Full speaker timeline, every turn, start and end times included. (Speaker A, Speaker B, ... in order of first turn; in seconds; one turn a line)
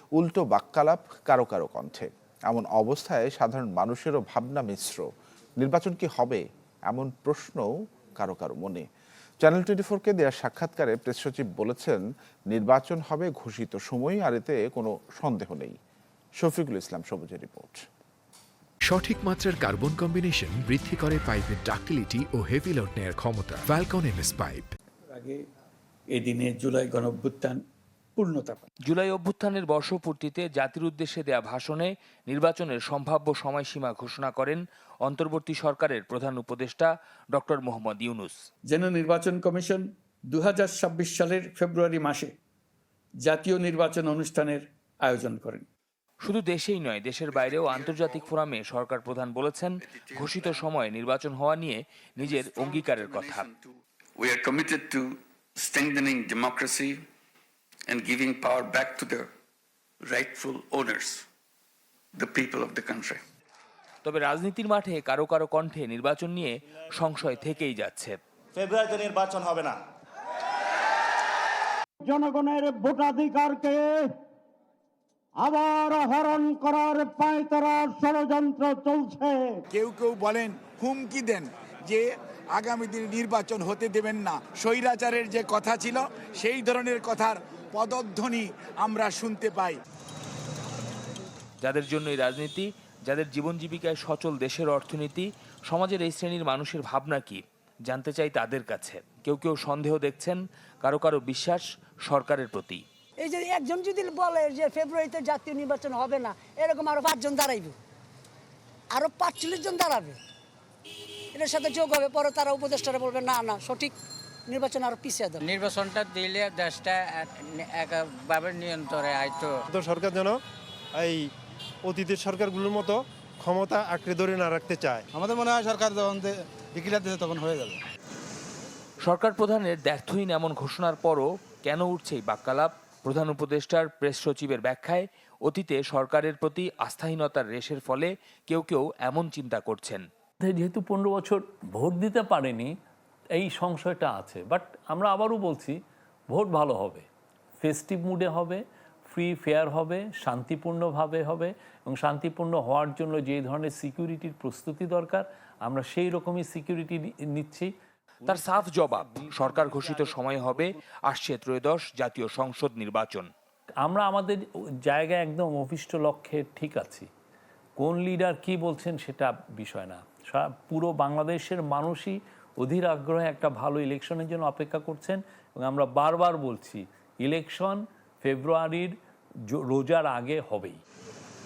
Speaker A: 0.1-5.0
Speaker A: 5.6-8.8
Speaker A: 9.4-15.8
Speaker A: 16.4-17.8
Speaker B: 18.8-24.7
Speaker C: 25.1-25.4
Speaker C: 26.1-27.6
Speaker C: 28.2-28.6
Speaker D: 28.9-38.4
Speaker C: 38.7-42.3
Speaker C: 43.2-45.6
Speaker D: 46.2-53.5
Speaker E: 47.3-48.3
Speaker E: 49.9-50.6
Speaker E: 52.2-53.7
Speaker E: 54.2-57.0
Speaker E: 57.9-59.3
Speaker E: 60.1-61.2
Speaker E: 62.2-63.2
Speaker D: 64.0-68.2
Speaker E: 68.6-69.7
Speaker F: 72.1-73.8
Speaker F: 75.4-79.5
Speaker G: 79.8-82.0
Speaker G: 82.6-89.8
Speaker D: 91.6-102.8
Speaker H: 103.2-107.8
Speaker H: 108.9-110.2
Speaker H: 111.3-113.9
Speaker H: 114.5-115.4
Speaker I: 115.4-119.6
Speaker J: 119.7-120.4
Speaker J: 121.0-121.2
Speaker J: 121.8-125.0
Speaker K: 125.1-127.8
Speaker D: 129.0-140.0
Speaker L: 140.4-142.7
Speaker L: 143.3-145.8
Speaker L: 146.3-147.0
Speaker L: 147.6-157.7
Speaker D: 158.2-163.3
Speaker L: 163.8-167.1
Speaker L: 167.8-178.9
Speaker L: 179.5-180.8